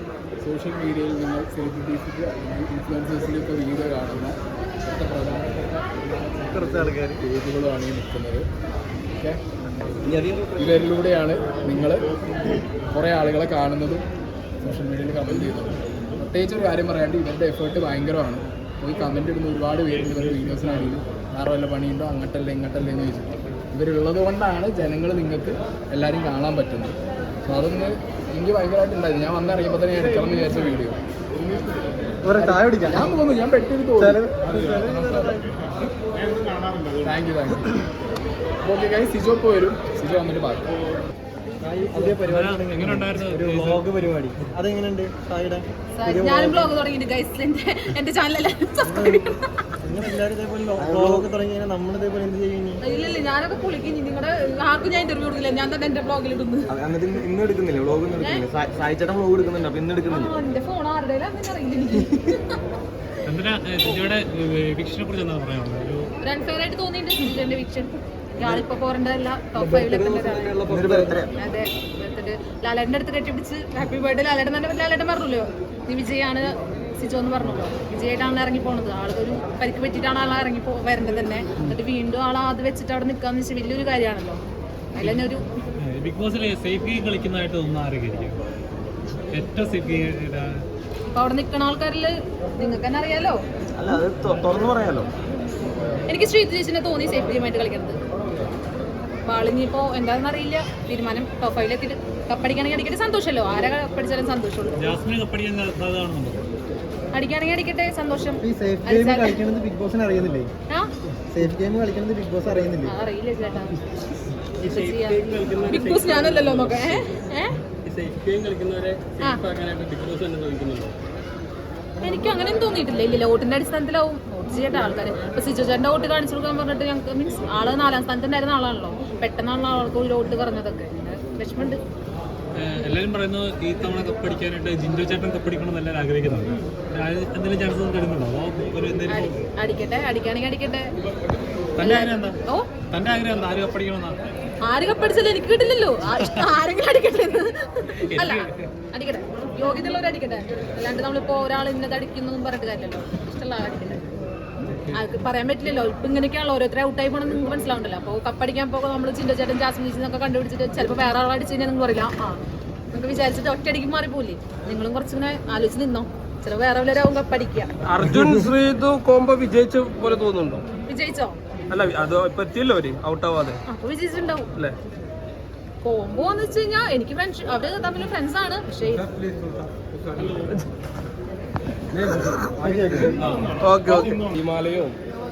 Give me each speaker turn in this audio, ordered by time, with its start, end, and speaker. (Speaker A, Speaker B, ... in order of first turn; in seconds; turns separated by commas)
Speaker A: 0.4-8.4, Speaker B: 6.5-7.2, Speaker A: 9.2-9.4, Speaker A: 10.6-12.1, Speaker A: 12.9-14.1, Speaker A: 14.6-31.0, Speaker B: 32.2-33.1, Speaker A: 32.3-35.3, Speaker B: 34.0-35.7, Speaker A: 37.0-37.7, Speaker A: 38.6-40.7, Speaker B: 41.6-46.7, Speaker C: 41.9-43.8, Speaker D: 46.0-49.5, Speaker B: 48.8-52.8, Speaker E: 50.8-51.3, Speaker D: 52.8-56.7, Speaker E: 56.7-60.3, Speaker D: 58.2-58.5, Speaker D: 60.0-62.4, Speaker C: 63.2-66.1, Speaker D: 66.2-70.7, Speaker E: 69.6-71.3, Speaker F: 70.7-70.9, Speaker D: 71.4-84.4, Speaker D: 85.0-85.5, Speaker C: 85.0-88.4, Speaker C: 89.3-90.6, Speaker D: 91.1-93.4, Speaker E: 93.8-95.1, Speaker D: 96.1-98.0, Speaker D: 99.2-105.0, Speaker C: 104.8-106.4, Speaker D: 107.1-109.4, Speaker B: 108.4-110.5, Speaker B: 111.3-113.0, Speaker D: 112.8-113.8, Speaker C: 114.6-117.0, Speaker D: 114.6-117.6, Speaker C: 117.8-120.9, Speaker D: 119.2-119.4, Speaker D: 122.0-131.8, Speaker C: 132.6-139.4, Speaker D: 139.1-140.9, Speaker C: 141.8-142.4, Speaker D: 141.8-142.7, Speaker C: 142.9-144.3, Speaker D: 144.6-154.0, Speaker C: 146.2-146.4, Speaker C: 148.0-148.7, Speaker C: 154.6-155.0, Speaker D: 154.9-162.4, Speaker D: 162.9-167.7, Speaker F: 167.8-170.6, Speaker D: 170.9-171.4, Speaker F: 171.7-173.6, Speaker D: 173.7-174.5, Speaker D: 175.8-179.1, Speaker B: 182.5-183.2, Speaker C: 183.1-183.6, Speaker F: 183.6-184.9